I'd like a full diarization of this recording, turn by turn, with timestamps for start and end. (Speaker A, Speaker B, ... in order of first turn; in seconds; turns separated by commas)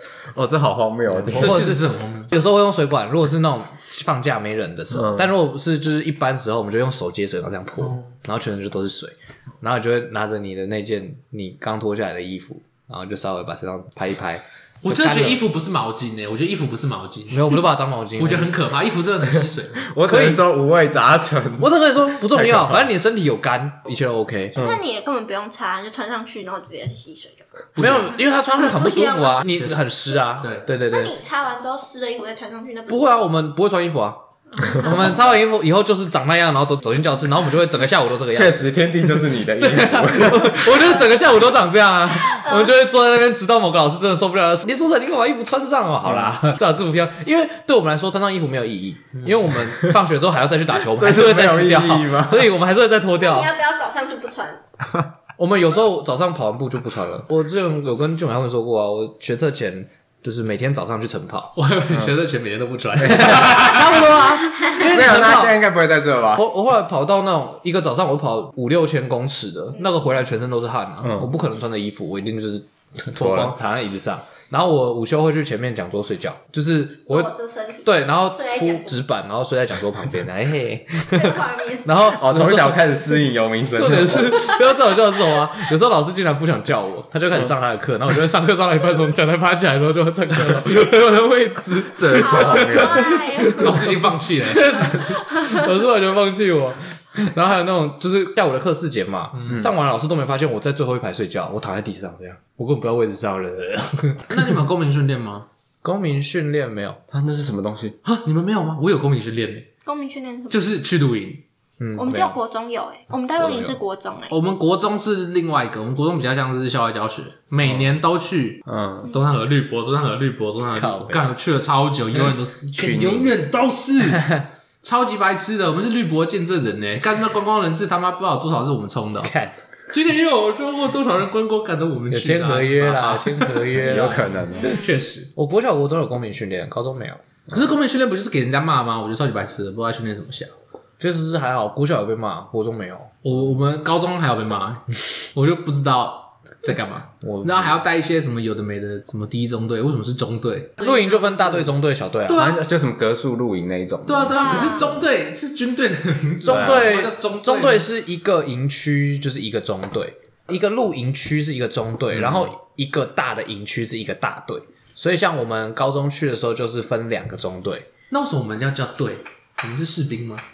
Speaker A: 0.3-1.6, Speaker B: 1.2-15.4, Speaker C: 1.2-2.3, Speaker A: 4.9-5.3, Speaker C: 14.8-17.6, Speaker B: 17.3-18.5, Speaker C: 18.2-19.9, Speaker A: 19.8-22.9, Speaker B: 20.0-20.4, Speaker B: 21.6-24.6, Speaker A: 24.5-24.8, Speaker D: 24.6-27.5, Speaker C: 27.8-28.1, Speaker B: 27.8-31.1, Speaker D: 28.5-29.4, Speaker C: 29.6-29.8, Speaker C: 30.4-30.7, Speaker D: 30.9-33.3, Speaker B: 32.9-53.5, Speaker D: 34.6-35.2, Speaker A: 38.3-40.9, Speaker D: 42.2-42.7, Speaker A: 46.0-46.4, Speaker A: 50.8-52.5, Speaker D: 53.1-54.6, Speaker B: 55.4-61.5, Speaker C: 61.5-64.1, Speaker B: 63.0-65.6, Speaker D: 64.6-64.8, Speaker A: 64.8-66.4, Speaker B: 66.3-77.3, Speaker A: 71.0-71.3, Speaker A: 73.1-73.5, Speaker D: 77.1-79.0, Speaker B: 77.8-82.9, Speaker D: 81.1-81.9, Speaker A: 82.0-84.4, Speaker B: 83.7-104.5, Speaker A: 91.9-93.4, Speaker D: 92.0-93.8, Speaker C: 93.5-95.0, Speaker C: 99.3-99.6, Speaker C: 104.3-105.5, Speaker B: 105.8-107.0, Speaker A: 107.1-108.0, Speaker C: 108.0-109.7, Speaker D: 109.8-110.6, Speaker C: 110.5-111.4, Speaker B: 111.8-112.4, Speaker D: 112.0-114.4, Speaker C: 114.3-124.3, Speaker A: 118.7-119.1, Speaker B: 120.7-121.2, Speaker A: 122.8-123.4, Speaker B: 124.0-124.4, Speaker C: 124.8-129.3, Speaker B: 129.2-129.6, Speaker C: 129.9-135.3, Speaker B: 132.1-134.4, Speaker A: 133.7-134.8, Speaker B: 135.3-137.2, Speaker C: 137.5-140.5, Speaker B: 141.0-143.1, Speaker C: 143.2-151.7, Speaker B: 147.2-147.6, Speaker B: 150.8-152.4, Speaker C: 152.3-152.6, Speaker A: 152.3-155.0, Speaker C: 154.1-157.9, Speaker B: 156.4-167.9, Speaker A: 156.4-156.9, Speaker A: 162.1-162.5, Speaker C: 168.1-170.4